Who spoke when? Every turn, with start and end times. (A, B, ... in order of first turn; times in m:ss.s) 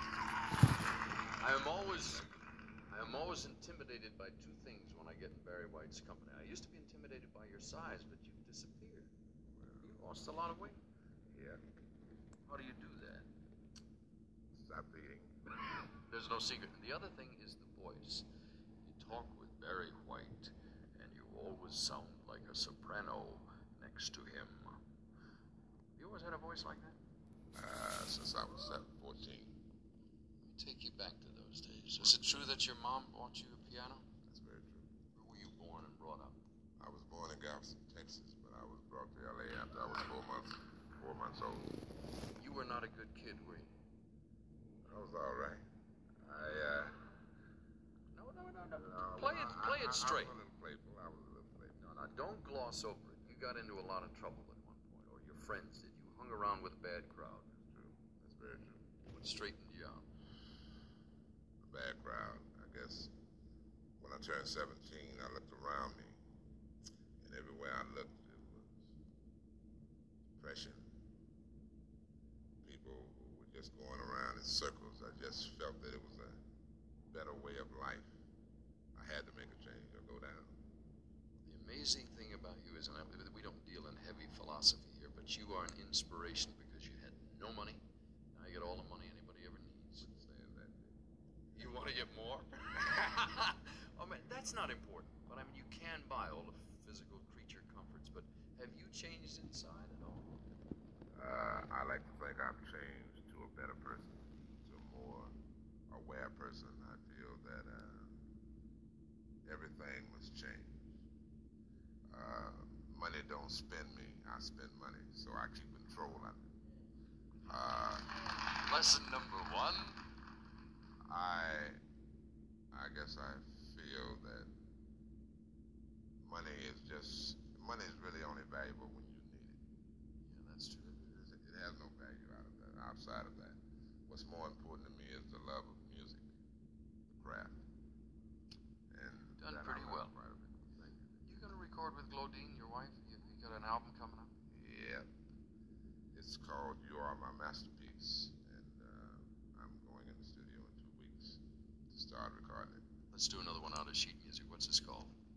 0:01.4-0:02.3 A
0:02.9-0:09.1 A
0:09.6-0:09.9 B
0:09.8-0:10.8 A
0:11.3-0:11.6 B
0:12.5-0:13.3 A
0:14.5-0:15.4 B
0:16.0-0:18.3 A
0:18.8-0:24.8 A
0:26.0-0:27.0 A
0:27.6-0:29.6 B
0:30.4-0:34.1 A
0:34.2-0:34.9 B
0:35.2-0:36.4 A
0:36.8-0:41.8 B
0:42.4-0:43.7 A
0:44.8-0:45.6 B
0:46.2-0:47.0 B
0:48.1-0:50.4 A
0:48.8-0:51.8 B
0:51.8-0:57.5 A
0:57.6-0:58.9 B
0:59.1-1:00.1 A
1:01.6-1:03.1 B
1:04.0-1:06.2 B
1:07.2-1:08.9 B
1:10.3-1:10.9 B
1:12.6-1:16.4 B
1:17.0-1:18.2 B
1:19.0-1:20.6 B
1:21.4-1:27.8 A
1:28.3-1:30.0 A
1:30.0-1:30.9 B
1:31.5-1:40.3 A
1:41.1-1:45.3 B
1:45.9-1:48.2 B
1:49.4-1:51.0 B
1:52.1-1:56.5 B
1:57.5-1:58.1 B
1:58.4-2:00.0 A
2:01.1-2:01.8 B
2:02.7-2:04.5 B
2:06.2-2:09.6 B
2:10.2-2:11.0 A
2:10.8-2:16.2 B
2:17.1-2:17.6 B
2:18.9-2:21.0 B
2:19.4-2:20.1 A
2:21.2-2:24.3 A
2:24.5-2:25.1 B
2:26.1-2:32.8 B
2:33.1-2:35.1 A